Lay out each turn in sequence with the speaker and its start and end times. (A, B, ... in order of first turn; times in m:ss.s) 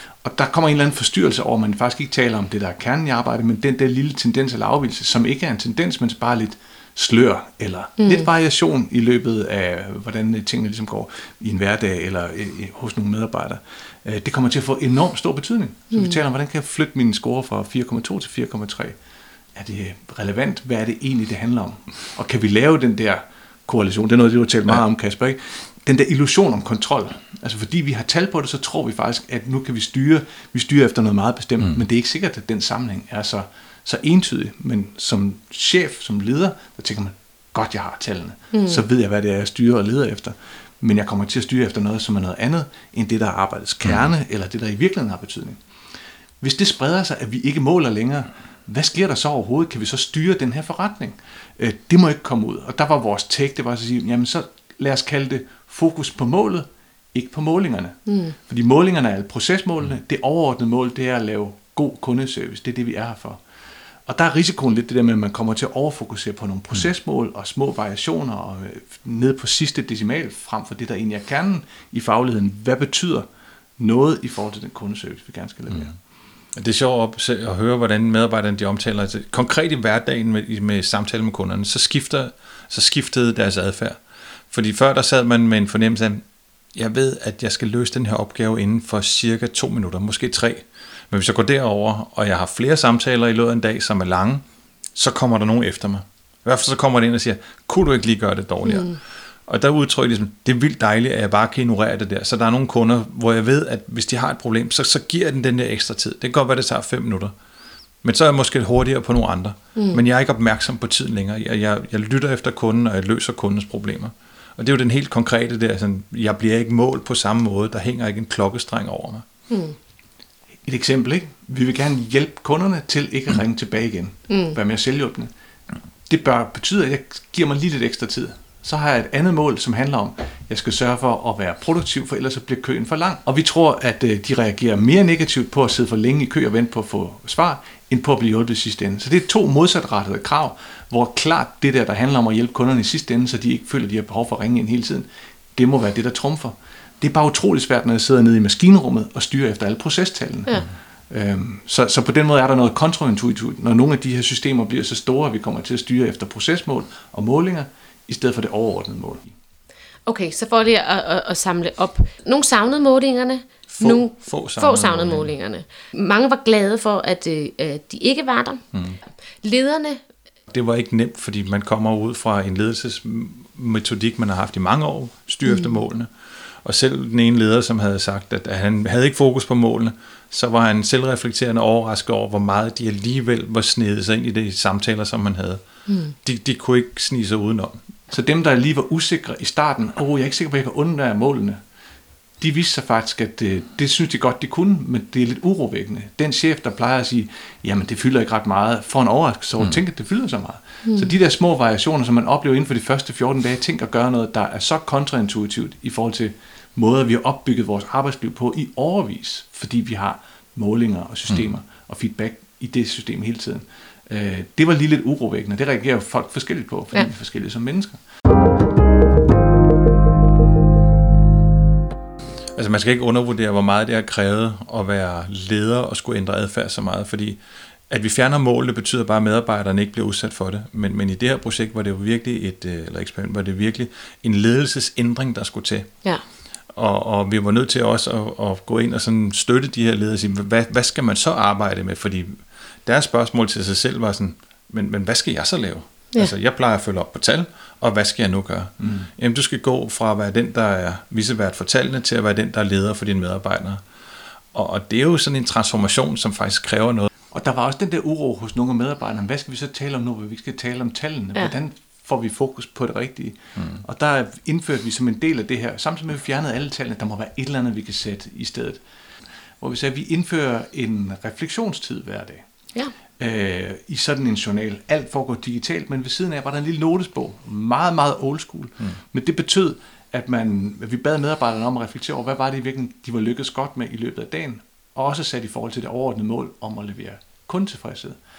0:00.2-0:19.0 A
0:08.0-0:08.3 B
0:19.6-0:45.6 A
0:38.5-0:38.8 B
0:46.4-1:03.4 A
0:58.1-0:58.4 B
1:04.1-1:13.3 A
1:13.8-1:16.0 A
1:16.5-1:34.4 C
1:35.0-1:47.3 C
1:38.7-1:39.0 B
1:48.0-1:59.3 C
1:49.8-1:50.0 B
1:59.5-1:59.8 B
2:00.6-2:05.3 A
2:04.3-2:04.6 B
2:06.1-2:39.3 A
2:40.1-2:48.6 B
2:43.7-2:45.3 C
2:48.7-2:49.0 C
2:49.4-2:50.0 B
2:50.5-2:56.1 C
2:55.5-2:55.8 B
2:56.6-3:05.6 C
3:05.9-3:06.2 B
3:06.2-3:07.8 C
3:08.1-3:11.6 A
3:12.4-3:38.0 A
3:20.9-3:21.1 B
3:42.5-3:47.4 C
3:47.9-3:55.9 C
3:56.7-4:13.8 C
4:08.8-4:09.1 A
4:14.5-4:17.1 C
4:17.3-4:28.8 A
4:29.6-4:32.4 A
4:33.2-4:48.2 A